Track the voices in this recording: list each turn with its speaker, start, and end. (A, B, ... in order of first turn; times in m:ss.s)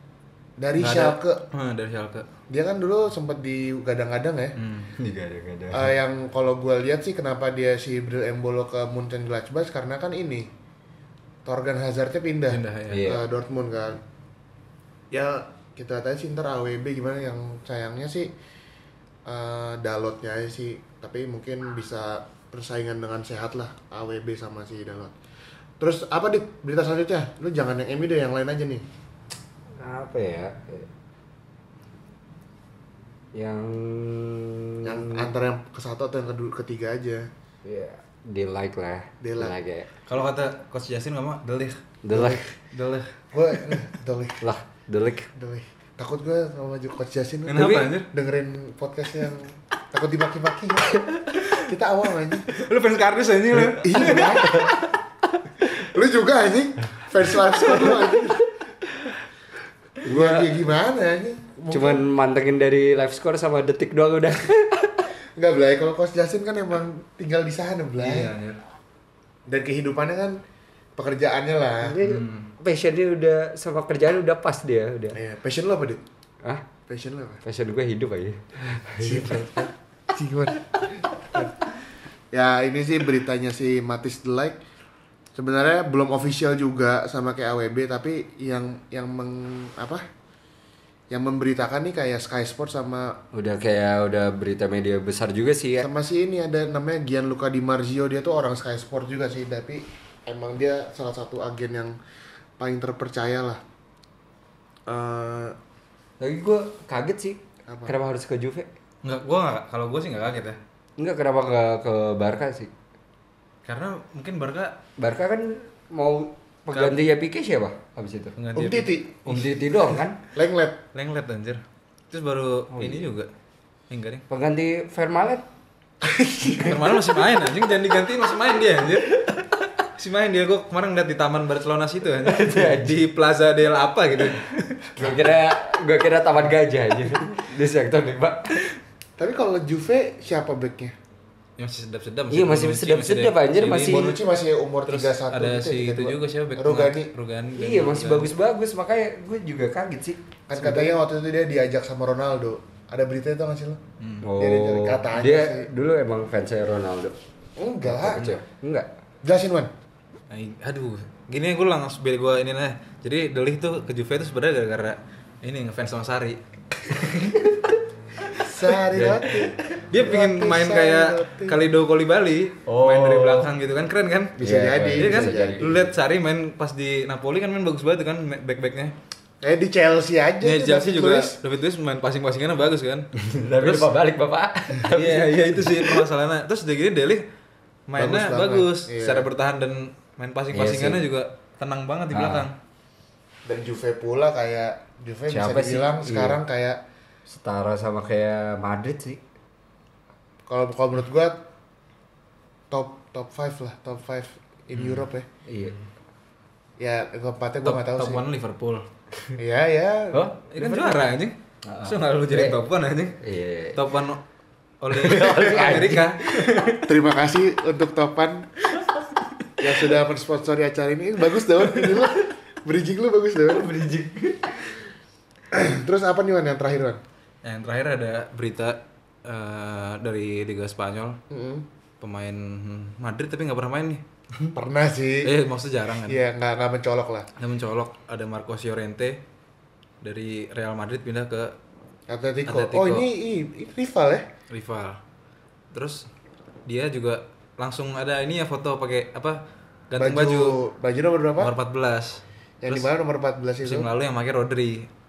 0:00.6-0:01.4 A
0:00.8-0:02.3 B
0:02.5-0:04.6 A
0:04.6-0:04.9 B
0:04.9-0:05.9 C
0:05.7-0:10.5 A
0:11.4-0:14.0 A
0:12.5-0:13.0 B
0:12.9-0:13.2 C
0:15.1-0:18.3 A
0:19.2-0:25.1 A
0:25.8-0:28.8 A
0:29.8-0:30.9 C
0:33.3-0:35.3 C
0:34.8-0:37.3 A
0:37.6-0:39.9 C
0:39.2-0:39.5 A
0:40.1-0:41.8 B
0:42.0-0:42.4 C
0:42.1-0:42.4 A
0:42.7-0:43.1 B
0:43.3-0:44.4 A
0:44.4-0:45.3 C
0:45.3-0:52.6 A
0:47.5-0:48.1 B
0:47.6-0:47.9 C
0:51.3-0:51.6 B
0:52.5-0:54.8 B
0:53.5-0:54.8 A
0:55.6-0:58.6 A
1:00.0-1:02.0 A
1:00.0-1:00.6 C
1:01.7-1:05.1 C
1:05.4-1:08.3 A
1:08.0-1:08.6 B
1:09.5-1:10.4 A
1:11.0-1:12.0 A
1:11.8-1:15.2 C
1:12.0-1:12.5 B
1:15.1-1:16.0 A
1:16.9-1:17.4 A
1:17.4-1:19.5 C
1:18.8-1:21.6 A
1:22.3-1:24.6 A
1:25.3-1:30.0 A
1:31.1-1:33.2 A
1:33.3-1:35.9 C
1:35.8-1:42.0 A
1:42.6-1:43.6 A
1:44.9-1:45.6 A
1:46.2-1:48.7 C
1:47.7-1:47.9 A
1:49.0-1:50.6 B
1:51.0-1:52.7 C
1:53.6-1:54.8 B
1:55.0-1:58.3 C
1:56.7-1:57.0 B
1:58.4-1:59.9 B
1:58.5-1:59.2 A
1:59.2-2:00.2 C
2:00.3-2:00.8 A
2:00.9-2:03.3 B
2:02.7-2:03.1 C
2:03.9-2:04.2 B
2:04.3-2:05.4 C
2:06.0-2:06.9 A
2:06.5-2:09.3 B
2:09.8-2:15.2 B
2:12.2-2:13.0 C
2:14.9-2:18.7 C
2:19.2-2:20.9 A
2:21.6-2:24.1 B
2:22.3-2:24.2 C
2:23.7-2:27.1 A
2:24.9-2:28.3 B
2:27.6-2:30.9 C
2:30.5-2:33.8 A
2:34.0-2:34.3 B
2:34.2-2:37.2 C
2:34.4-2:35.7 A
2:37.6-2:38.4 A
2:37.8-2:38.9 C
2:39.2-2:39.7 A
2:40.3-2:46.4 B
2:47.0-2:47.6 C
2:48.4-2:51.6 A
2:48.9-2:49.5 C
2:49.9-2:54.4 B
2:52.6-2:53.5 C
2:54.4-2:55.8 A
2:54.4-2:55.9 C
2:55.0-2:58.9 B
2:59.4-3:01.4 A
3:00.4-3:03.1 B
3:03.2-3:06.0 C
3:03.6-3:03.9 B
3:04.9-3:07.2 B
3:07.9-3:12.5 B
3:08.0-3:09.3 A
3:10.5-3:11.0 C
3:12.1-3:12.5 C
3:13.4-3:16.8 A
3:15.3-3:16.4 C
3:17.3-3:19.2 C
3:20.5-3:21.5 A
3:22.7-3:25.3 A
3:24.7-3:25.1 B
3:25.4-3:25.8 C
3:26.8-3:28.2 A
3:27.6-3:28.9 B
3:29.4-3:30.3 A
3:30.1-3:31.0 C
3:30.5-3:33.2 B
3:31.6-3:32.6 C
3:33.2-3:33.8 C
3:33.7-3:34.2 B
3:34.8-3:36.8 B
3:34.9-3:36.8 C
3:36.8-3:38.5 A
3:39.6-3:43.7 A
3:43.5-3:44.7 C
3:45.5-3:47.0 A
3:47.4-3:51.2 B
3:51.3-3:51.7 A
3:52.0-3:54.0 B
3:54.5-3:55.3 A
3:55.2-3:56.2 B
3:56.0-3:57.3 A
3:57.4-3:59.2 B
4:00.0-4:01.6 B
4:02.1-4:04.3 A
4:02.5-4:03.1 B
4:04.5-4:05.0 B
4:05.7-4:06.1 B
4:06.6-4:10.6 B
4:10.0-4:11.5 A
4:11.4-4:12.9 B
4:12.6-4:13.9 A
4:13.6-4:14.9 B